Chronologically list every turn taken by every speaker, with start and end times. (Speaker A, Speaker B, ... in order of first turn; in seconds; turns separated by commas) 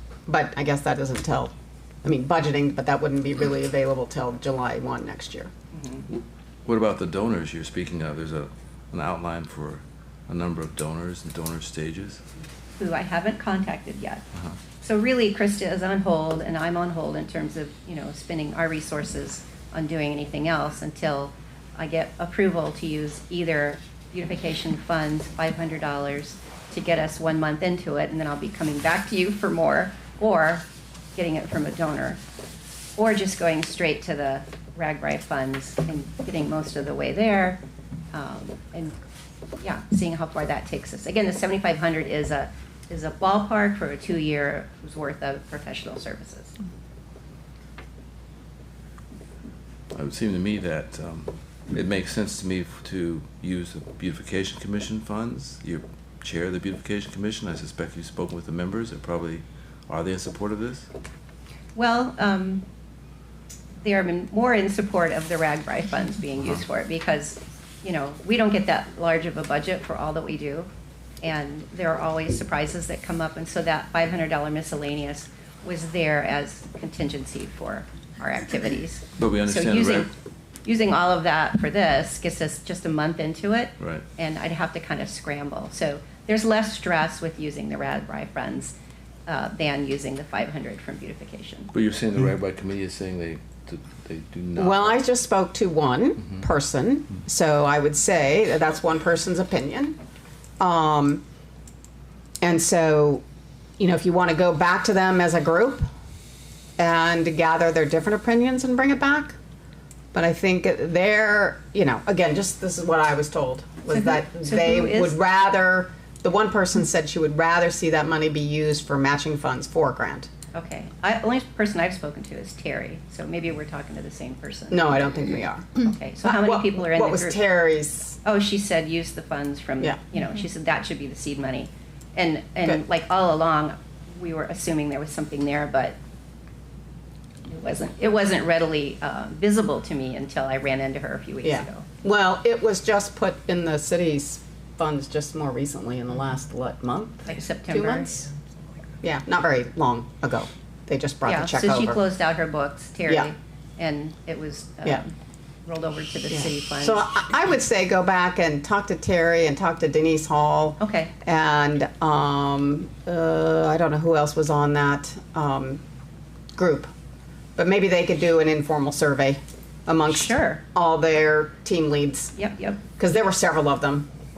Speaker A: 0.3-1.5, Speaker A: 2.0-5.5, Speaker B: 5.8-6.0, Speaker C: 6.1-12.2, Speaker B: 12.8-14.2, Speaker B: 14.8-32.2, Speaker B: 33.0-37.6, Speaker B: 38.1-38.9, Speaker B: 39.6-46.5, Speaker C: 49.9-60.9, Speaker B: 61.7-62.6, Speaker B: 63.8-70.7, Speaker B: 71.2-80.1, Speaker C: 79.2-80.1, Speaker B: 80.6-88.7, Speaker C: 83.8-84.0, Speaker B: 89.3-91.7, Speaker C: 91.7-95.0, Speaker A: 94.5-100.0, Speaker A: 100.6-101.2, Speaker A: 102.4-103.2, Speaker A: 103.8-105.8, Speaker A: 106.8-109.3, Speaker A: 110.1-120.3, Speaker B: 113.9-115.2, Speaker B: 120.5-127.4, Speaker A: 124.7-125.7, Speaker A: 126.2-128.2, Speaker B: 128.2-136.0, Speaker B: 137.5-141.8, Speaker A: 141.4-148.2, Speaker B: 147.3-148.1, Speaker A: 149.0-152.0, Speaker B: 151.2-155.1, Speaker B: 155.6-157.0, Speaker A: 156.3-165.8, Speaker B: 160.8-161.1, Speaker A: 166.6-166.9, Speaker A: 167.6-172.3, Speaker B: 170.1-170.6, Speaker B: 172.4-172.8, Speaker A: 173.0-174.1